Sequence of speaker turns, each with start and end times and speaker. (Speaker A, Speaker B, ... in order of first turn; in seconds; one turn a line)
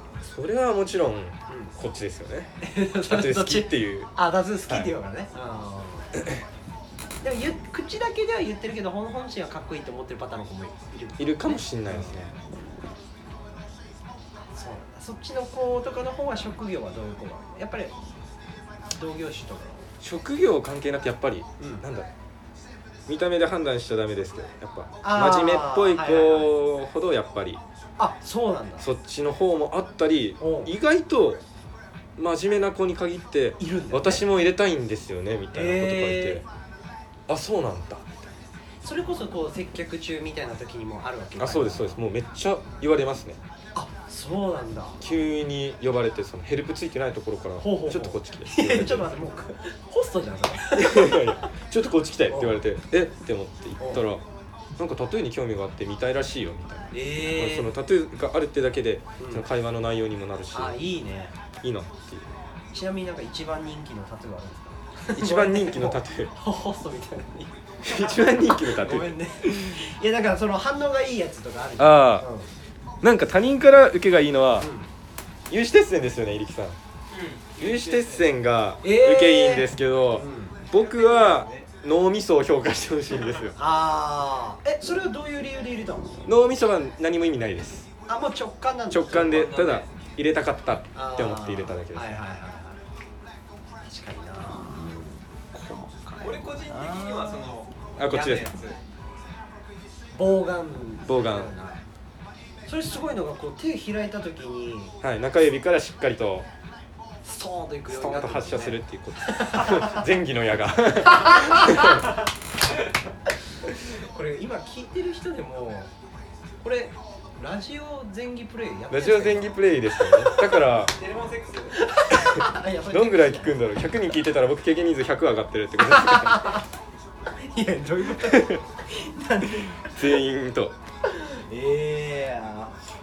Speaker A: 0.2-4.1
Speaker B: 1.5-1.7
Speaker B: 2.6-6.2
Speaker A: 4.7-4.9
Speaker B: 7.2-12.2
Speaker A: 11.2-12.3
Speaker B: 14.5-17.9
Speaker B: 18.9-19.9
Speaker A: 20.0-22.1
Speaker B: 21.6-21.9
Speaker A: 23.1-27.6
Speaker B: 25.0-26.5
Speaker B: 28.0-28.9
Speaker A: 28.8-31.4
Speaker B: 30.4-30.7
Speaker A: 32.2-36.5
Speaker B: 33.6-34.2
Speaker B: 35.5-36.4
Speaker A: 37.3-38.4
Speaker B: 38.8-42.0
Speaker A: 41.4-43.4
Speaker B: 43.8-45.0
Speaker A: 45.0-49.1
Speaker B: 47.6-51.5
Speaker A: 50.7-54.2
Speaker B: 52.3-52.6
Speaker B: 53.8-54.0
Speaker A: 54.8-60.8
Speaker B: 56.9-57.7
Speaker B: 59.2-59.5
Speaker B: 60.5-61.4
Speaker A: 61.6-62.3
Speaker B: 62.7-72.5
Speaker A: 65.1-66.3
Speaker A: 67.8-69.8
Speaker A: 71.8-72.3
Speaker A: 73.0-74.7
Speaker B: 74.6-74.9
Speaker A: 75.5-76.8
Speaker C: 77.1-78.3
Speaker A: 77.6-83.6
Speaker B: 78.8-80.7
Speaker C: 80.7-81.7
Speaker B: 83.6-86.3
Speaker A: 86.3-87.9
Speaker B: 88.1-89.6
Speaker A: 88.9-92.1
Speaker C: 89.3-89.9
Speaker B: 90.9-92.8
Speaker B: 93.8-97.5
Speaker C: 96.2-98.8
Speaker A: 98.0-98.5
Speaker B: 98.1-98.4
Speaker B: 100.1-101.8
Speaker A: 101.1-101.5
Speaker B: 102.7-105.0
Speaker A: 105.0-106.5
Speaker B: 107.2-110.0
Speaker A: 107.9-112.2
Speaker B: 111.1-112.0
Speaker B: 113.8-115.9
Speaker B: 116.6-120.5
Speaker A: 118.9-121.0
Speaker C: 120.8-121.8
Speaker B: 121.8-123.6
Speaker A: 122.1-126.6
Speaker B: 125.9-126.6
Speaker B: 127.4-130.2
Speaker A: 128.2-128.6
Speaker A: 129.7-130.8
Speaker B: 131.1-132.8